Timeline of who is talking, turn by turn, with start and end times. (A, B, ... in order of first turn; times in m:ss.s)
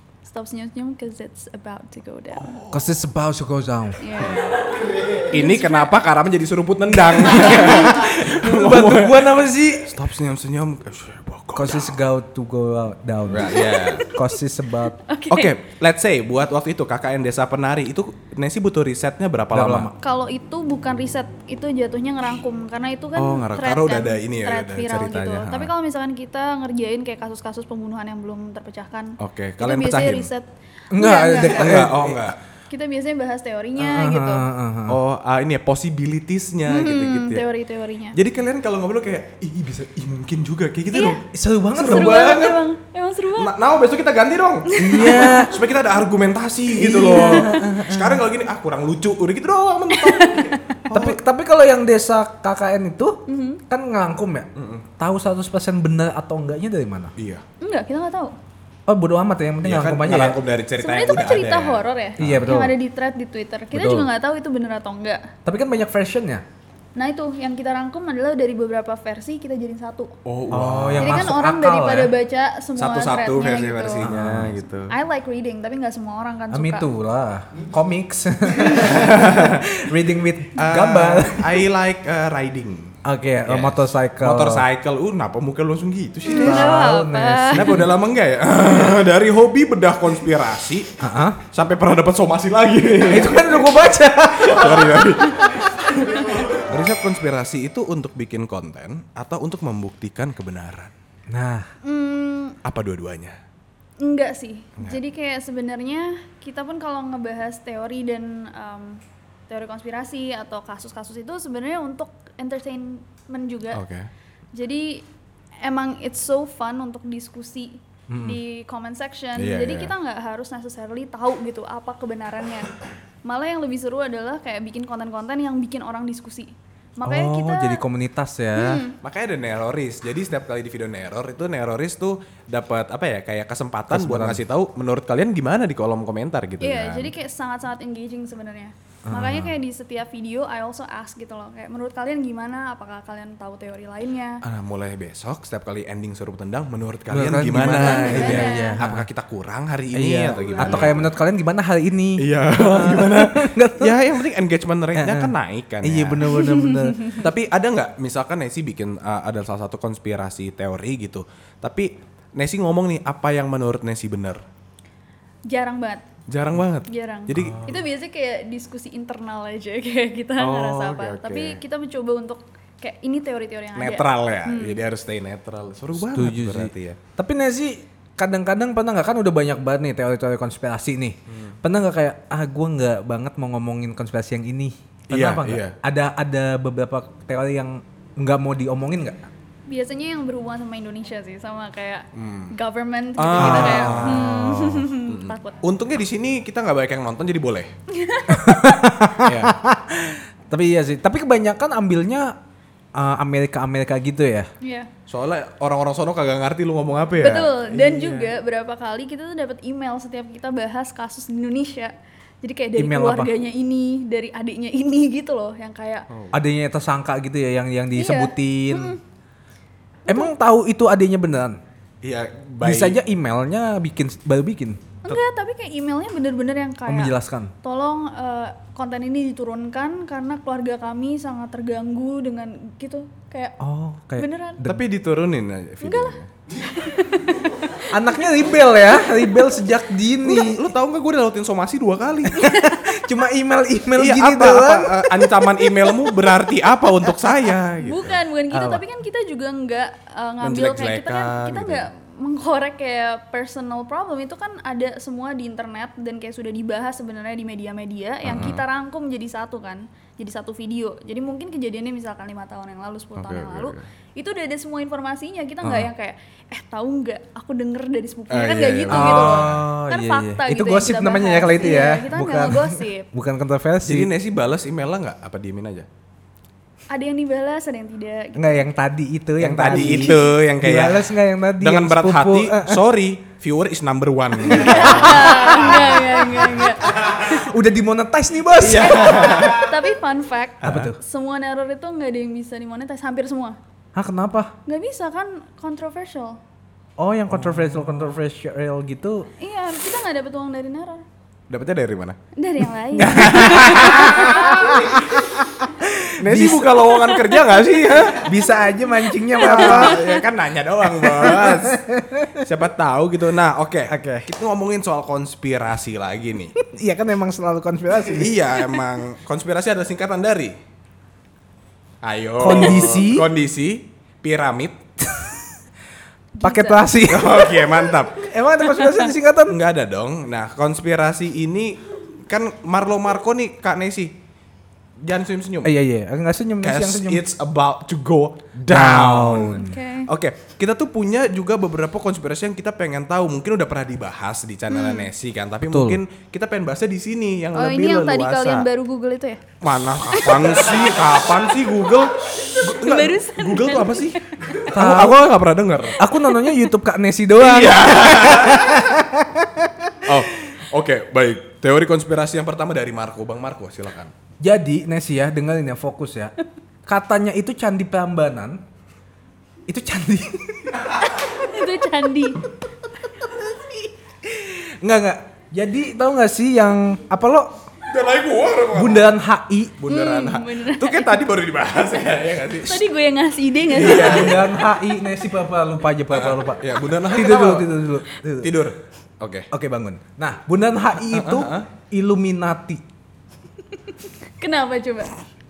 0:00.2-0:02.5 A
0:02.4-0:02.9 B
0:02.7-0:04.0 C
0:04.0-0:06.0 A
0:05.3-0:12.0 B
0:07.2-0:10.0 C
0:11.5-0:15.0 C
0:13.3-0:14.1 B
0:13.5-0:14.2 A
0:15.0-0:15.6 A
0:15.3-0:19.9 B
0:19.5-0:19.9 C
0:20.0-0:31.9 A
0:23.2-0:25.7 B
0:29.2-0:30.3 B
0:30.9-0:32.3 C
0:31.4-0:32.4 B
0:32.7-0:34.5 A
0:33.8-0:35.0 C
0:34.9-0:37.4 B
0:36.7-0:38.2 A
0:38.1-0:41.2 B
0:40.9-0:41.2 A
0:41.3-0:42.2 C
0:41.7-0:42.6 B
0:41.8-0:43.5 A
0:43.4-0:51.2 B
0:44.7-0:45.5 A
0:44.8-0:45.5 C
0:46.7-0:48.2 C
0:46.9-0:47.7 A
0:49.9-0:50.8 A
0:50.9-0:57.1 C
0:53.3-0:53.6 A
0:54.5-0:54.9 B
0:57.2-0:57.4 B
0:57.6-0:58.3 A
0:58.9-1:00.4 C
0:59.6-1:02.6 B
1:00.8-1:05.3 A
1:02.2-1:02.8 C
1:03.7-1:04.1 C
1:05.4-1:06.4 C
1:06.9-1:10.1 A
1:10.2-1:11.3 B
1:10.5-1:12.1 C
1:11.0-1:14.1 A
1:12.8-1:14.9 B
1:14.0-1:14.6 C
1:14.9-1:16.9 A
1:16.5-1:21.7 C
1:18.7-1:19.7 B
1:20.6-1:22.9 B
1:23.0-1:24.6 C
1:23.4-1:26.8 B
1:26.3-1:27.8 A
1:26.3-1:27.9 C
1:27.5-1:33.7 B
1:31.0-1:31.4 C
1:33.1-1:35.1 C
1:34.4-1:40.9 B
1:35.2-1:36.5 A
1:41.3-1:41.7 C
1:41.8-1:42.6 A
1:42.6-1:43.4 B
1:44.0-1:53.8 A
1:53.7-1:54.1 B
1:54.5-1:55.0 A
1:55.6-2:07.8 A
1:58.1-1:58.4 C
1:59.4-1:59.9 B
2:07.0-2:08.8 C
2:08.5-2:09.0 A
2:09.0-2:17.1 B
2:13.9-2:14.4 C
2:16.6-2:24.4 A
2:19.1-2:19.5 C
2:24.4-2:31.0 B
2:27.1-2:29.1 C
2:27.7-2:28.8 A
2:29.9-2:34.0 C
2:32.2-2:36.4 B
2:34.9-2:37.2 C
2:36.3-2:37.2 A
2:37.1-2:44.4 B
2:45.5-2:46.0 A
2:46.3-2:47.8 B
2:46.8-2:54.8 A
2:50.4-2:51.6 B
2:53.8-2:57.0 B
2:56.0-3:09.3 C
3:01.3-3:01.6 B
3:05.1-3:05.8 B
3:09.7-3:15.6 A
3:12.1-3:12.5 B
3:13.2-3:17.7 B
3:13.4-3:14.5 C
3:17.9-3:18.7 A
3:18.3-3:22.3 C
3:19.2-3:19.6 B
3:23.0-3:24.5 C
3:24.6-3:24.9 A
3:25.1-3:28.3 B
3:27.2-3:36.1 A
3:32.8-3:33.3 C
3:36.1-3:36.4 B
3:36.3-3:39.0 C
3:37.9-3:39.0 A
3:40.1-3:41.6 C
3:42.0-3:43.0 B
3:42.6-3:44.8 C
3:45.0-3:53.6 A
3:46.8-3:47.5 C
3:53.6-3:54.8 C
3:54.2-3:54.6 A
3:54.6-3:56.3 B
3:55.8-3:58.2 A
3:57.9-4:00.7 C
3:59.0-3:59.5 A
4:00.2-4:02.4 B
4:02.3-4:05.2 C
4:02.4-4:03.0 A
4:04.0-4:08.2 B
4:07.8-4:33.1 A
4:08.5-4:08.8 C
4:10.4-4:11.8 B
4:18.2-4:18.6 B
4:23.2-4:23.8 B
4:25.6-4:25.9 C
4:28.3-4:29.7 B
4:28.9-4:34.1 C
4:33.8-4:35.9 B
4:36.9-4:38.6 A
4:38.3-4:42.8 C
4:39.4-4:46.0 B
4:39.7-4:40.3 A
4:44.4-4:47.3 A
4:44.6-4:46.1 C
4:47.2-4:49.4 C
4:48.6-4:49.7 B
4:48.7-4:53.6 A
4:50.6-4:50.9 B
4:50.6-4:51.0 C
4:53.9-4:54.5 C
4:54.6-4:56.4 A
4:57.0-4:59.3 C
4:57.4-4:57.9 B
4:59.4-5:01.0 A
5:01.5-5:02.2 B
5:02.4-5:04.8 A
5:03.0-5:05.4 B
5:03.0-5:06.9 C
5:06.1-5:08.3 B
5:08.0-5:10.0 C
5:09.0-5:10.2 A
5:09.4-5:11.8 B
5:11.0-5:12.4 C
5:12.4-5:16.5 B
5:13.9-5:14.3 C
5:16.6-5:18.4 C
5:18.0-5:20.6 B
5:22.0-5:24.8 B
5:22.4-5:23.3 C
5:25.1-5:25.4 C
5:26.4-5:26.9 A
5:26.4-5:29.6 C
5:27.0-5:28.2 B
5:29.5-5:34.1 B
5:35.0-5:35.7 B
5:35.6-5:37.2 C
5:36.6-5:48.7 B
5:38.6-5:39.8 C
5:39.5-5:40.1 A
5:44.7-5:45.1 A
5:45.7-5:46.0 C
5:47.5-5:49.4 A
5:49.6-5:56.0 B
5:50.1-5:50.7 A
5:52.4-5:54.7 A
5:54.7-5:55.4 C
5:56.0-6:00.1 C
5:56.2-5:56.6 A
5:57.4-5:58.9 B
6:00.0-6:04.1 B
6:04.4-6:06.3 C
6:06.8-6:08.6 C
6:09.7-6:10.8 C
6:11.1-6:12.4 A
6:13.2-6:17.5 C
6:17.9-6:19.1 B
6:18.7-6:19.8 C
6:19.8-6:22.8 B
6:19.9-6:21.2 A
6:22.6-6:24.8 A
6:23.7-6:24.6 B
6:23.7-6:28.6 C
6:26.1-6:29.5 B
6:29.5-6:32.8 C
6:31.1-6:31.7 B
6:33.7-6:35.1 A